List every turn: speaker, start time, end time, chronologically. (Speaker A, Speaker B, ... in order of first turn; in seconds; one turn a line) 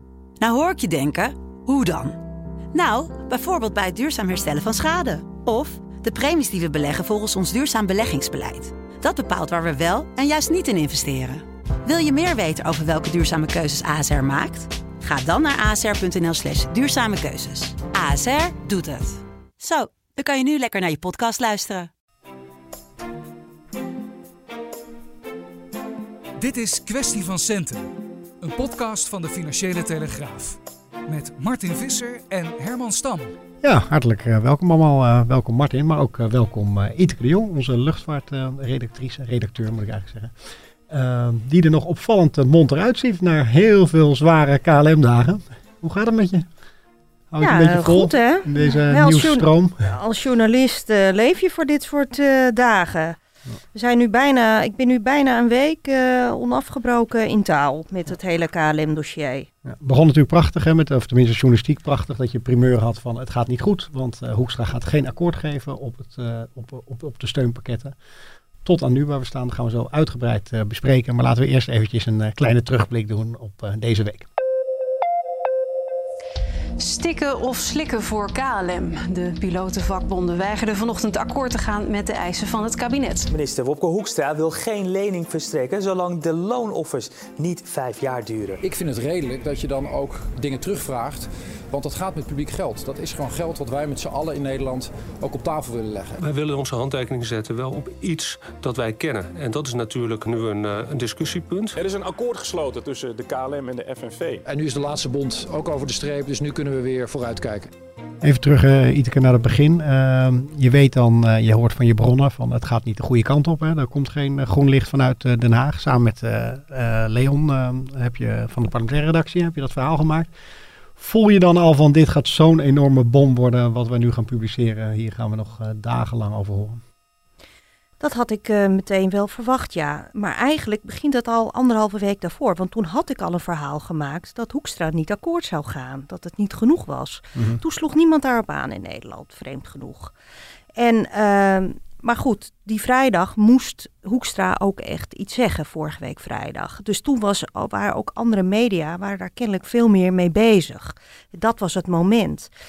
Speaker A: 0.4-2.2
Speaker A: 2.7-21.9
Speaker B: 26.4-27.9
Speaker B: 28.4-33.3
Speaker C: 33.6-40.3
Speaker C: 40.9-46.5
Speaker C: 47.3-49.9
Speaker D: 47.4-53.2
Speaker D: 53.7-59.5
Speaker C: 59.6-68.0
Speaker C: 68.6-74.2
Speaker E: 76.8-83.3
Speaker F: 83.4-83.7
Speaker F: 84.3-88.5
Speaker G: 88.6-96.2
Speaker H: 96.2-101.8
Speaker I: 101.8-104.4
Speaker G: 104.4-107.7
Speaker C: 108.2-120.3
Speaker C: 121.0-126.8
Speaker D: 128.0-140.1
Speaker D: 140.8-152.5